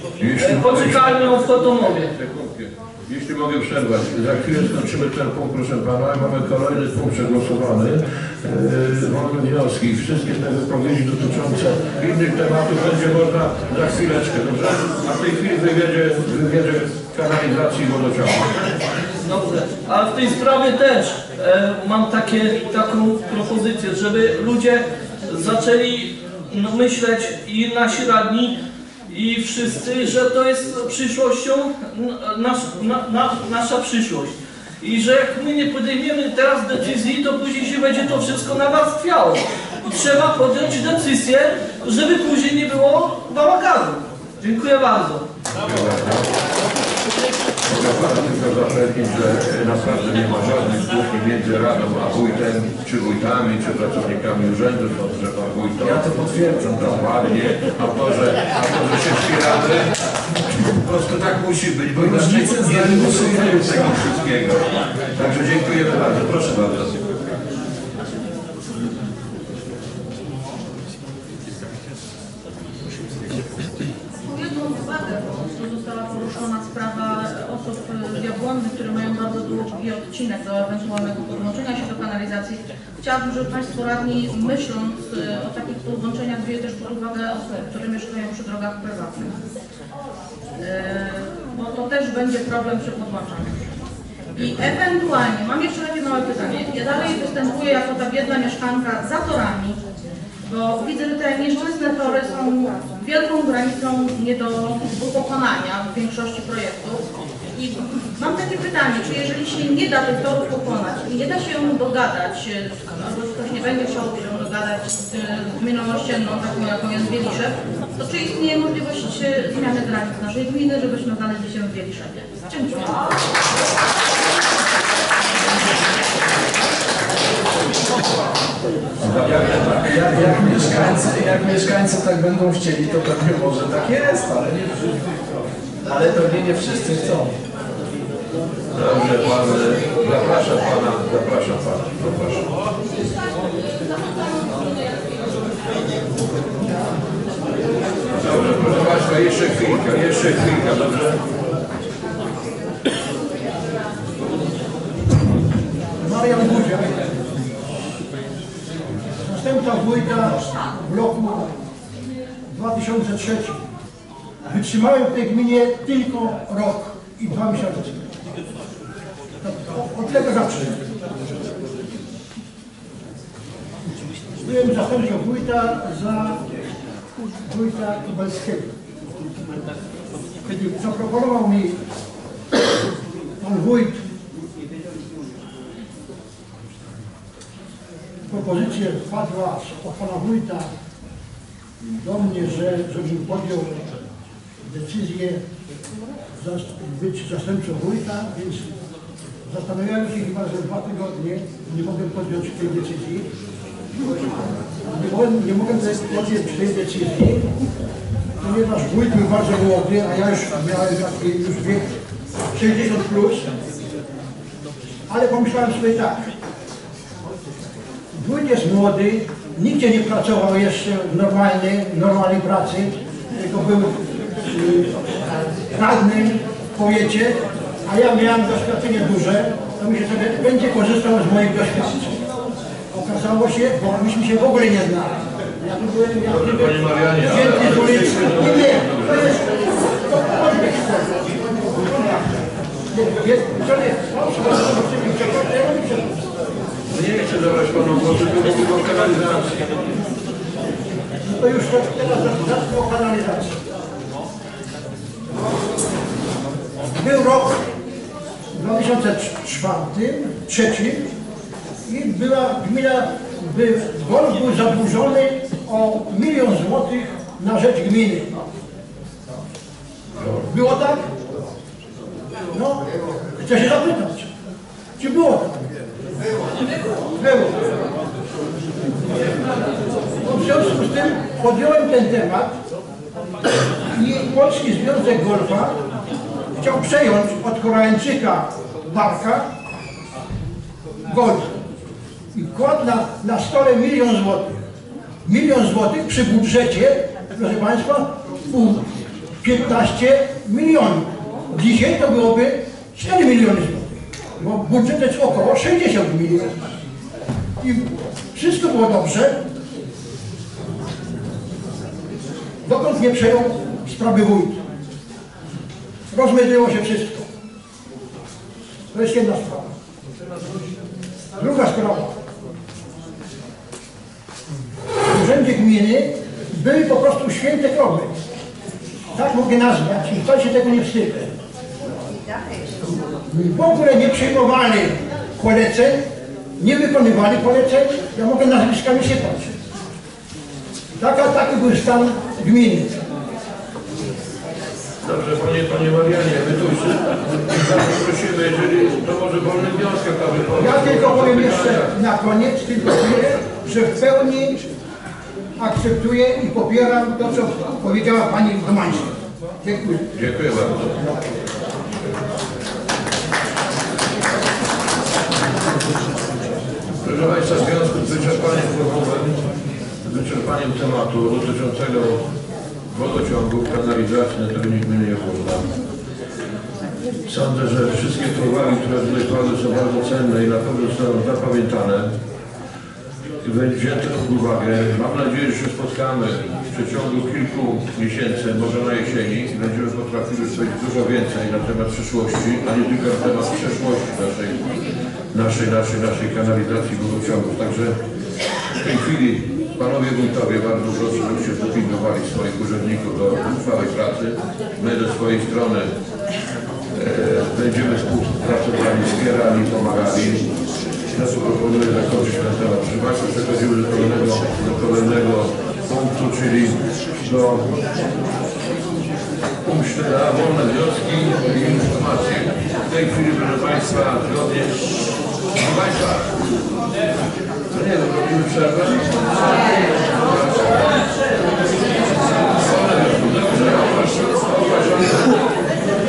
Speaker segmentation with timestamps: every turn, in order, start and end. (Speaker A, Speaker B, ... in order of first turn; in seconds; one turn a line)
Speaker A: 0.2-1.1
Speaker B: 0.4-2.1
Speaker A: 1.7-18.6
Speaker B: 19.2-28.6
Speaker B: 29.1-45.3
Speaker A: 45.6-46.3
Speaker A: 47.7-60.0
Speaker C: 55.8-57.0
Speaker A: 60.5-67.0
Speaker C: 61.9-64.0
Speaker D: 74.3-89.3
Speaker D: 90.6-93.5
Speaker D: 94.3-99.8
Speaker A: 94.4-94.7
Speaker D: 100.5-107.0
Speaker D: 107.5-122.9
Speaker A: 129.0-131.0
Speaker C: 129.2-134.9
Speaker C: 135.8-137.3
Speaker A: 138.7-142.4
Speaker A: 148.1-151.2
Speaker E: 156.0-156.9
Speaker E: 159.2-161.5
Speaker E: 162.5-163.6
Speaker E: 164.4-168.0
Speaker E: 169.4-170.8
Speaker E: 174.4-176.4
Speaker E: 177.4-178.7
Speaker E: 180.4-181.7
Speaker E: 183.4-184.0
Speaker E: 188.3-190.7
Speaker E: 192.0-193.8
Speaker E: 194.6-195.4
Speaker E: 196.4-198.7
Speaker E: 199.5-203.3
Speaker E: 204.8-207.5
Speaker E: 208.4-211.9
Speaker E: 212.5-213.4
Speaker E: 215.1-216.3
Speaker E: 218.1-224.9
Speaker E: 225.7-232.2
Speaker E: 232.9-242.3
Speaker A: 236.3-239.4
Speaker E: 242.9-246.2
Speaker A: 246.9-249.7
Speaker E: 251.2-253.6
Speaker E: 256.9-257.6
Speaker E: 258.5-261.1
Speaker E: 261.9-268.4
Speaker A: 270.2-270.5
Speaker E: 270.4-271.1
Speaker E: 272.5-272.8
Speaker E: 273.4-274.3
Speaker E: 275.0-275.6
Speaker E: 277.2-277.6
Speaker E: 280.2-282.5
Speaker E: 283.9-285.8
Speaker E: 286.5-289.4
Speaker E: 291.1-291.5
Speaker E: 292.3-294.5
Speaker E: 295.2-298.9
Speaker E: 299.4-306.6
Speaker E: 307.6-309.4
Speaker E: 312.6-314.6
Speaker E: 316.1-317.2
Speaker E: 318.9-319.7
Speaker E: 321.4-322.1
Speaker E: 325.1-328.1
Speaker E: 329.1-331.3
Speaker E: 333.3-336.0
Speaker E: 336.6-339.5
Speaker E: 340.9-342.9
Speaker A: 345.0-351.9
Speaker E: 350.6-354.6
Speaker E: 355.6-360.1
Speaker A: 360.1-361.1
Speaker A: 367.0-369.4
Speaker A: 370.0-372.2
Speaker A: 372.9-375.7
Speaker A: 377.3-382.1
Speaker A: 383.4-394.6
Speaker A: 395.3-398.0
Speaker A: 398.8-405.9
Speaker A: 406.9-410.5
Speaker A: 411.1-417.7
Speaker A: 419.6-424.8
Speaker A: 425.5-426.3
Speaker A: 427.7-431.0
Speaker A: 432.5-435.4